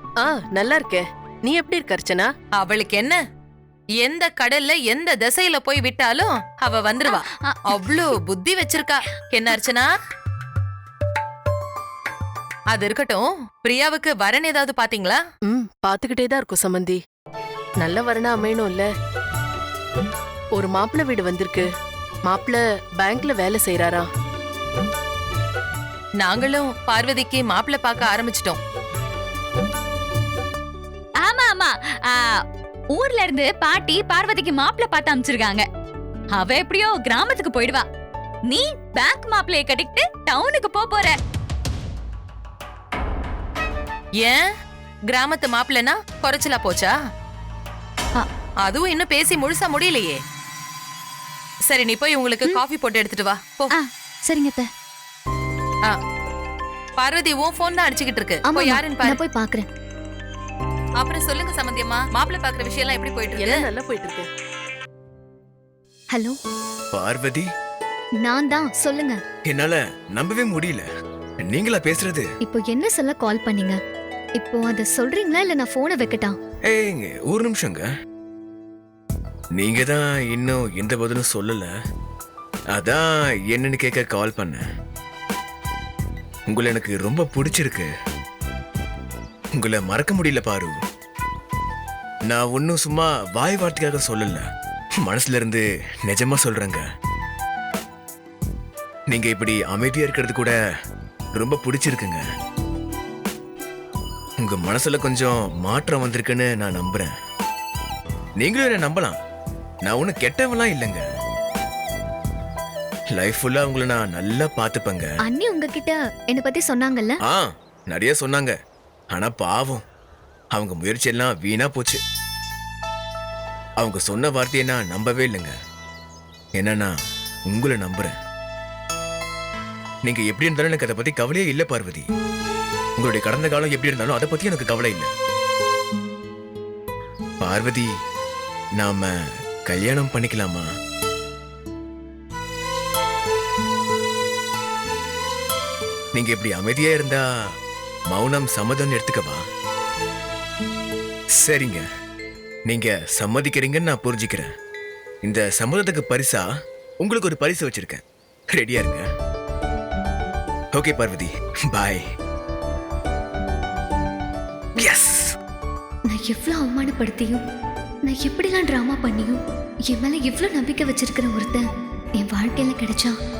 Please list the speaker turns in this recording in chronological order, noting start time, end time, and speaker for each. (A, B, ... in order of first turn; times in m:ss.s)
0:00.2-0:02.3 A
0:02.6-0:03.2 B
0:04.0-0:09.9 B
0:07.0-0:08.2 C
0:12.7-0:15.2 B
0:15.5-0:17.0 A
0:17.8-0:18.9 A
0:20.5-0:21.7 A
0:22.2-0:24.1 A
0:26.2-0:28.6 B
0:31.2-0:32.4 C
0:32.9-0:35.6 C
0:36.3-0:37.9 C
0:38.5-0:41.2 C
0:44.2-0:44.5 B
0:45.1-0:47.0 B
0:48.2-0:50.2 B
0:51.6-0:53.8 B
0:53.7-0:54.7 C
0:57.0-0:59.2 B
0:58.4-0:59.7 D
1:01.0-1:03.7 B
1:03.4-1:04.3 A
1:06.9-1:07.5 E
1:08.2-1:09.2 D
1:09.5-1:10.9 E
1:11.4-1:12.3 E
1:12.4-1:13.8 D
1:14.4-1:16.4 D
1:16.7-1:17.9 E
1:19.6-1:21.7 E
1:22.7-1:24.6 E
1:26.5-1:27.9 E
1:29.6-1:30.7 E
1:32.3-1:34.4 E
1:35.0-1:36.8 E
1:39.1-1:40.6 E
1:41.4-1:42.2 E
1:44.4-1:47.1 E
1:48.4-1:49.2 E
1:49.8-1:51.0 E
1:53.1-1:55.1 E
1:55.2-1:57.2 D
1:57.3-1:58.6 E
1:59.1-1:59.8 E
2:00.5-2:02.0 E
2:03.8-2:05.5 E
2:06.6-2:07.0 E
2:07.5-2:08.1 E
2:10.0-2:12.1 E
2:13.0-2:15.1 E
2:17.4-2:17.9 E
2:18.8-2:19.1 E
2:19.7-2:20.6 E
2:26.2-2:27.2 E
2:28.1-2:29.4 E
2:31.4-2:31.8 E
2:32.7-2:34.5 E
2:35.2-2:36.5 E
2:37.0-2:39.0 E
2:40.8-2:42.0 E
2:44.8-2:45.3 E
2:46.1-2:47.4 D
2:48.1-2:49.4 D
2:49.9-2:51.6 D
2:52.2-2:53.1 D